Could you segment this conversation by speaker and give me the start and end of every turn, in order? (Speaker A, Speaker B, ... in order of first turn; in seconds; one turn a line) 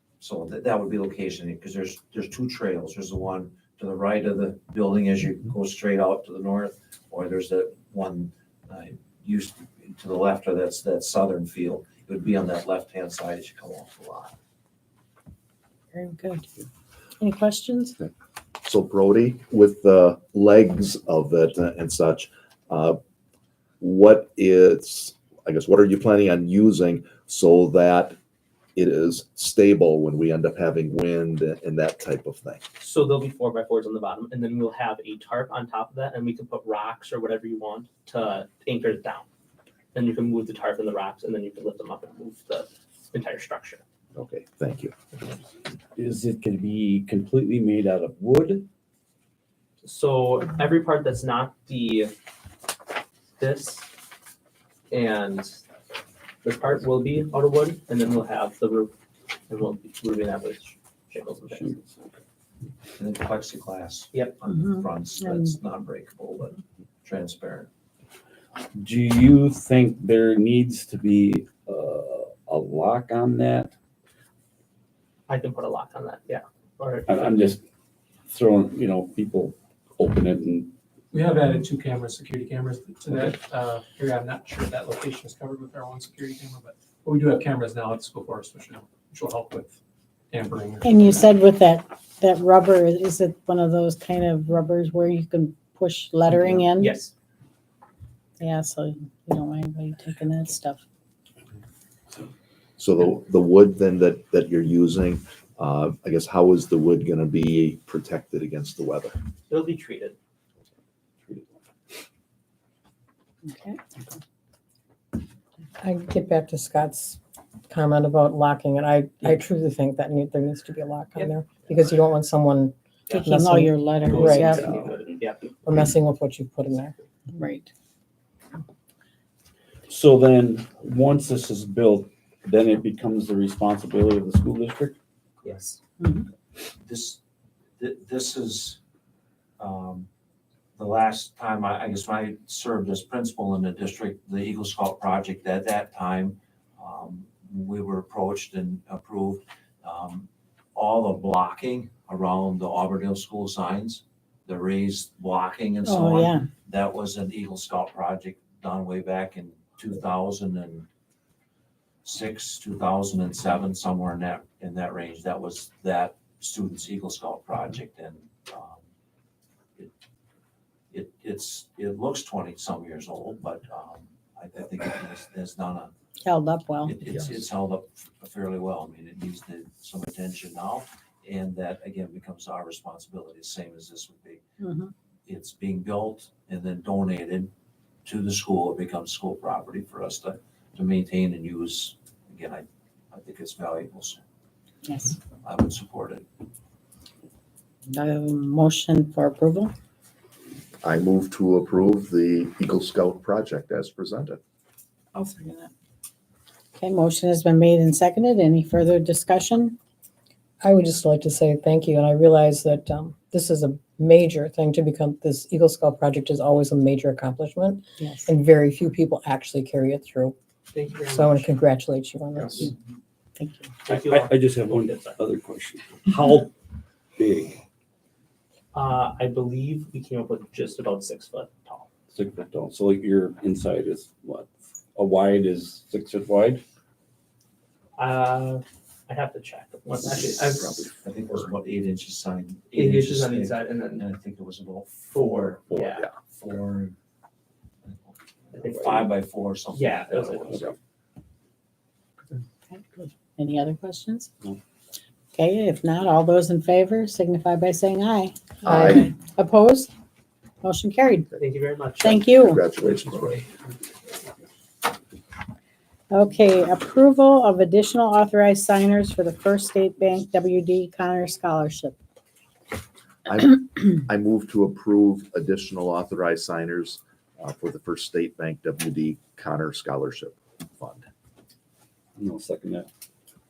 Speaker A: 0.2-14.3
Speaker B: 15.9-16.5
Speaker B: 17.2-18.0
Speaker C: 18.6-23.0
Speaker C: 23.8-28.2
Speaker C: 28.8-32.6
Speaker D: 32.8-39.3
Speaker D: 39.9-43.8
Speaker C: 44.1-44.9
Speaker E: 46.0-48.7
Speaker D: 49.8-52.1
Speaker D: 53.4-53.9
Speaker D: 54.9-55.6
Speaker D: 56.4-58.9
Speaker D: 59.5-61.7
Speaker E: 61.5-62.1
Speaker A: 63.0-67.7
Speaker B: 64.5-65.5
Speaker E: 68.7-73.7
Speaker D: 75.3-77.3
Speaker E: 77.1-77.6
Speaker E: 78.3-80.8
Speaker F: 81.1-89.8
Speaker F: 90.3-91.2
Speaker B: 90.8-96.9
Speaker D: 96.7-97.1
Speaker B: 98.4-100.8
Speaker C: 102.8-109.2
Speaker D: 109.5-110.2
Speaker B: 113.5-113.8
Speaker G: 115.8-117.2
Speaker G: 117.7-122.7
Speaker B: 123.1-124.9
Speaker G: 123.2-124.6
Speaker D: 124.0-125.5
Speaker G: 125.7-126.9
Speaker B: 127.3-127.7
Speaker E: 129.9-135.0
Speaker B: 136.0-136.3
Speaker A: 136.8-137.2
Speaker A: 137.8-138.8
Speaker A: 139.6-140.1
Speaker A: 140.8-160.9
Speaker B: 155.9-156.5
Speaker A: 162.0-168.8
Speaker A: 170.9-175.9
Speaker B: 176.2-176.9
Speaker A: 176.8-184.4
Speaker B: 184.6-184.9
Speaker A: 185.3-187.5
Speaker A: 188.1-194.2
Speaker B: 194.8-195.2
Speaker A: 195.4-196.2
Speaker B: 197.9-199.7
Speaker C: 200.8-204.4
Speaker B: 205.1-205.7
Speaker B: 206.8-209.8
Speaker G: 210.7-220.3
Speaker B: 218.0-218.3
Speaker D: 220.7-221.2
Speaker F: 221.1-221.4
Speaker G: 221.1-222.7
Speaker B: 223.4-223.8
Speaker D: 223.8-225.2
Speaker E: 223.9-226.5
Speaker E: 227.2-227.6
Speaker D: 228.7-231.9
Speaker E: 232.1-236.6
Speaker D: 238.0-240.9
Speaker A: 241.0-246.9
Speaker D: 242.7-244.1
Speaker D: 245.1-246.1
Speaker C: 245.7-246.1
Speaker A: 247.8-250.7
Speaker D: 248.5-249.2
Speaker D: 249.7-250.7
Speaker B: 252.7-254.3
Speaker B: 255.3-259.9
Speaker C: 258.6-259.1
Speaker B: 260.6-261.4
Speaker D: 261.4-262.2
Speaker B: 262.0-262.6
Speaker C: 262.0-263.5
Speaker B: 266.1-272.0
Speaker C: 273.3-281.1
Speaker E: 282.2-282.9